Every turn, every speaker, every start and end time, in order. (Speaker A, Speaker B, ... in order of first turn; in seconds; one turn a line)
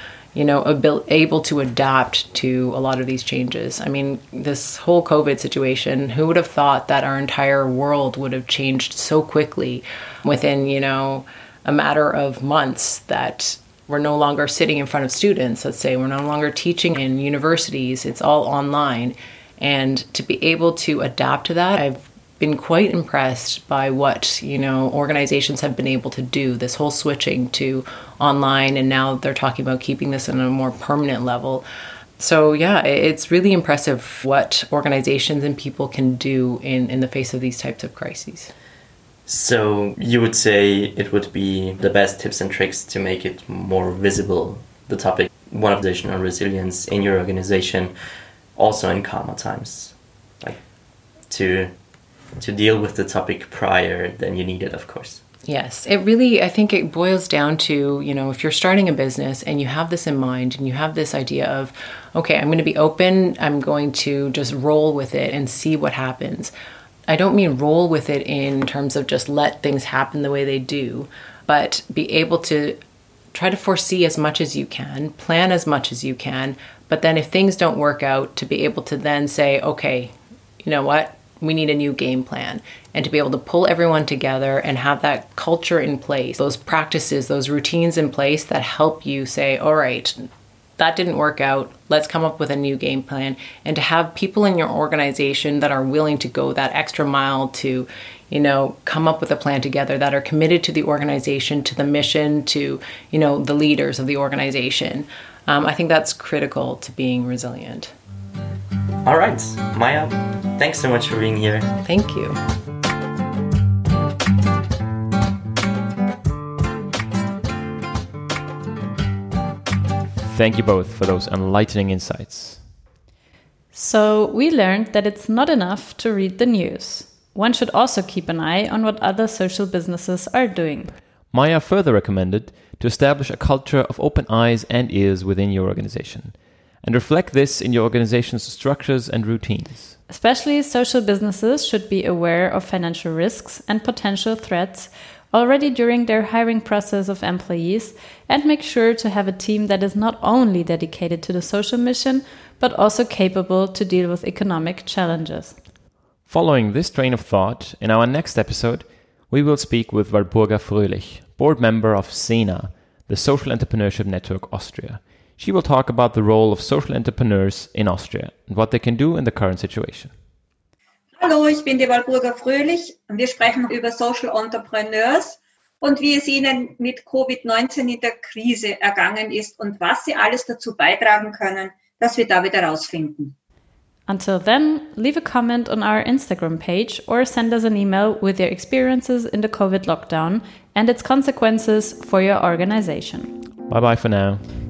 Speaker A: 0.3-31.6
Speaker A: 32.2-38.5
Speaker B: 39.3-47.9
Speaker B: 48.5-50.6
Speaker B: 51.3-51.7
Speaker B: 52.4-55.2
Speaker A: 55.5-66.5
Speaker A: 67.1-72.8
Speaker A: 73.3-90.2
Speaker A: 90.8-107.9
Speaker B: 109.0-111.7
Speaker A: 111.8-112.4
Speaker C: 120.2-122.7
Speaker D: 123.7-130.9
Speaker C: 131.3-139.9
Speaker D: 140.1-155.6
Speaker C: 156.3-170.1
Speaker E: 171.2-183.3
Speaker D: 184.1-193.3
Speaker C: 193.7-194.5